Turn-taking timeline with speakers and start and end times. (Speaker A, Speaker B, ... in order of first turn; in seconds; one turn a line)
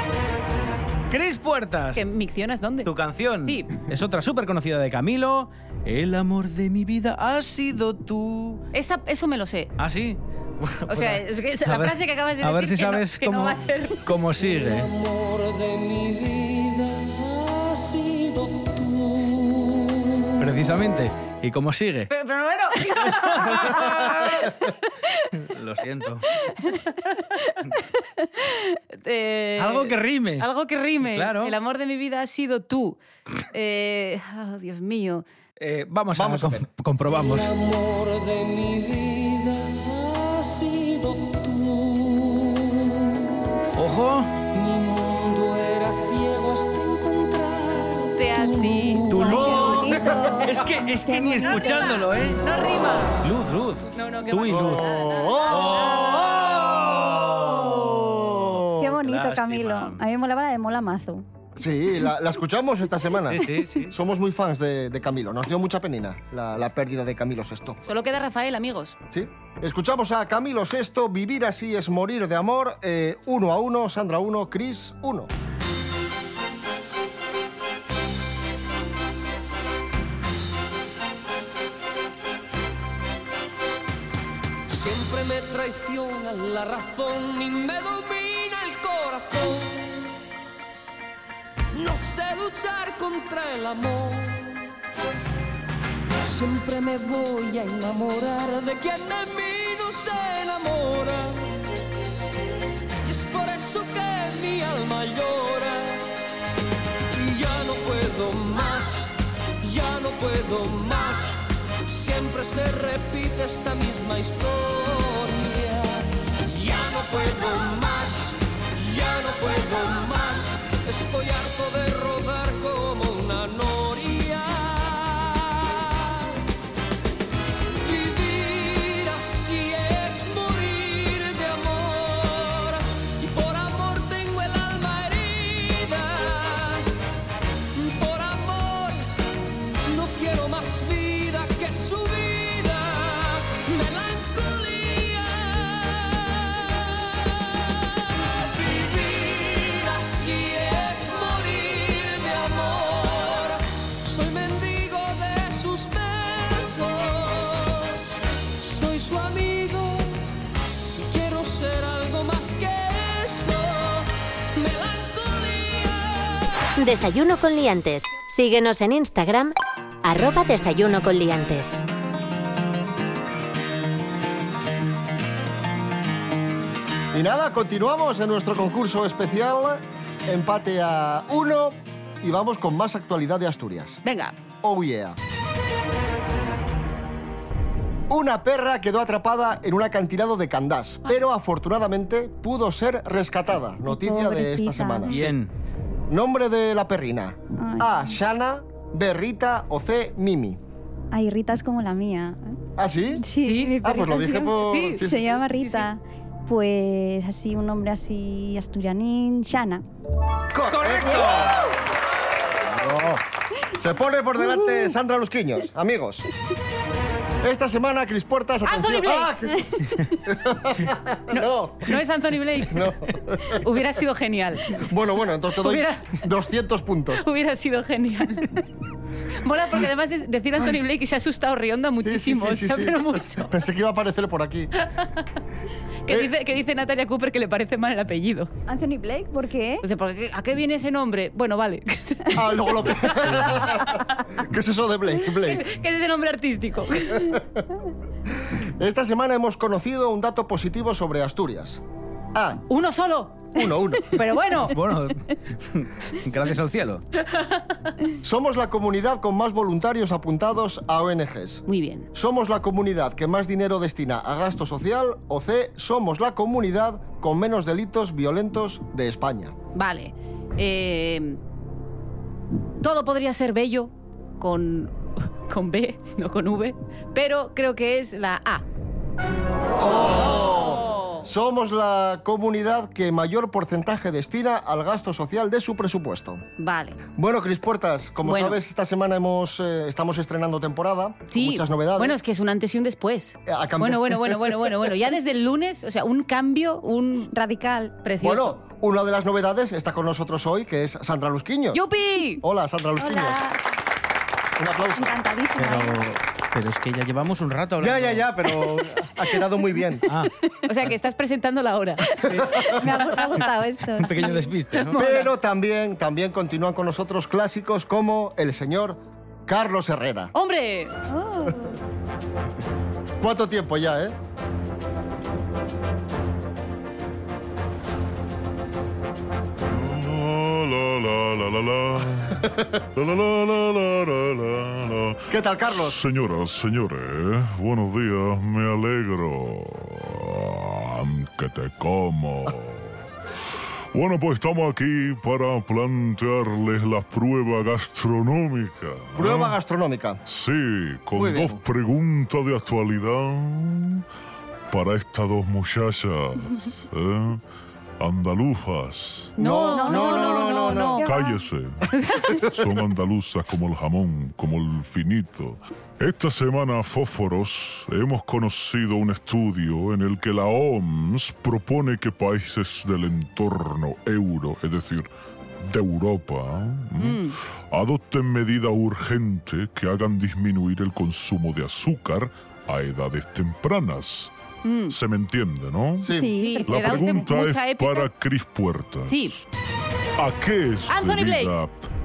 Speaker A: 1.1-2.0
Speaker B: 1.9-2.9
Speaker A: 2.8-8.6
Speaker B: 3.4-3.8
Speaker B: 8.7-9.7
Speaker A: 9.8-14.9
Speaker B: 10.9-14.0
Speaker C: 14.4-20.4
Speaker A: 20.4-22.1
Speaker B: 22.1-25.3
Speaker A: 23.0-24.6
Speaker A: 25.3-26.4
Speaker B: 26.7-27.5
Speaker B: 28.4-33.0
Speaker A: 29.6-30.5
Speaker A: 31.0-31.6
Speaker B: 33.5-35.2
Speaker A: 35.6-37.5
Speaker D: 36.1-36.6
Speaker C: 37.1-43.5
Speaker A: 43.8-44.3
Speaker C: 44.5-49.5
Speaker B: 48.1-49.4
Speaker A: 49.1-52.4
Speaker D: 49.2-50.5
Speaker E: 49.4-52.0
Speaker B: 51.5-53.3
Speaker A: 53.2-54.9
Speaker B: 53.9-56.0
Speaker D: 54.5-58.0
Speaker A: 55.5-60.0
Speaker E: 58.8-61.2
Speaker D: 61.5-67.8
Speaker A: 63.3-63.9
Speaker B: 67.8-69.0
Speaker D: 69.1-75.3
Speaker C: 84.7-90.0
Speaker C: 91.7-94.6
Speaker C: 96.2-101.5
Speaker C: 103.0-106.0
Speaker C: 107.1-126.4
Speaker C: 127.7-136.9
Speaker C: 137.7-139.1
Speaker C: 139.8-160.1
Speaker C: 160.9-166.7
Speaker F: 166.8-171.8
Speaker D: 177.1-184.0
Speaker B: 184.0-184.4
Speaker D: 184.6-185.2
Speaker D: 188.1-195.3
Speaker E: 193.8-195.2
Speaker A: 195.1-195.5
Speaker D: 196.1-200.6
Speaker E: 197.6-198.2
Speaker E: 201.1-202.6
Speaker D: 202.8-205.4
Speaker E: 203.2-209.8
Speaker B: 203.4-203.8
Speaker B: 204.6-205.9
Speaker D: 210.5-211.5
Speaker A: 210.7-211.6
Speaker D: 212.7-213.2
Speaker D: 213.7-216.3
Speaker D: 217.4-222.0
Speaker B: 218.6-219.3
Speaker B: 221.3-222.8
Speaker D: 222.7-223.6
Speaker B: 223.5-224.8
Speaker D: 224.7-227.2
Speaker B: 225.6-226.2
Speaker B: 227.1-228.7
Speaker B: 229.3-233.5
Speaker D: 232.0-234.7
Speaker B: 234.8-235.1
Speaker B: 236.1-238.5
Speaker E: 238.7-239.8
Speaker B: 239.8-242.6
Speaker D: 242.3-245.7
Speaker B: 243.3-244.1
Speaker B: 245.3-247.4
Speaker D: 248.5-251.8
Speaker D: 252.3-252.6
Speaker B: 252.7-254.8
Speaker D: 253.5-254.2
Speaker A: 254.7-257.0
Speaker D: 258.2-269.5
Speaker B: 261.7-262.1
Speaker B: 269.7-271.4
Speaker B: 272.8-278.6
Speaker D: 279.8-286.4
Speaker B: 280.4-281.2
Speaker B: 286.6-287.0
Speaker D: 287.1-292.2
Speaker B: 288.2-288.6
Speaker B: 291.3-297.3
Speaker D: 293.5-294.8
Speaker E: 297.3-298.0
Speaker B: 298.0-298.6
Speaker D: 298.2-301.8
Speaker B: 301.7-302.4
Speaker D: 302.4-303.4
Speaker E: 303.0-303.6
Speaker D: 304.6-305.1
Speaker E: 304.9-306.0
Speaker A: 305.6-309.2
Speaker D: 307.8-310.1
Speaker A: 310.0-310.3
Speaker B: 310.6-313.4
Speaker A: 312.2-312.5
Speaker D: 312.2-312.7
Speaker E: 312.7-314.5
Speaker A: 314.0-315.0
Speaker B: 314.8-315.3
Speaker D: 314.9-320.3
Speaker B: 320.3-320.9
Speaker E: 321.1-321.7
Speaker D: 323.2-324.1
Speaker G: 329.6-343.1
Speaker D: 332.3-332.8
Speaker D: 335.3-336.0
Speaker G: 343.9-349.5
Speaker D: 349.1-350.2
Speaker G: 350.2-354.0
Speaker D: 351.1-351.6
Speaker G: 354.7-357.4
Speaker G: 358.0-359.4
Speaker D: 359.4-361.0
Speaker B: 359.4-361.1
Speaker E: 359.7-361.4
Speaker G: 361.0-375.1
Speaker B: 361.9-362.4
Speaker G: 375.6-384.3
Speaker B: 377.0-377.4
Speaker B: 384.6-384.9
Speaker G: 384.9-389.4
Speaker D: 386.0-386.3
Speaker E: 386.1-387.3
Speaker B: 386.3-388.1
Speaker B: 389.1-389.3
Speaker G: 390.2-391.7
Speaker B: 390.9-391.5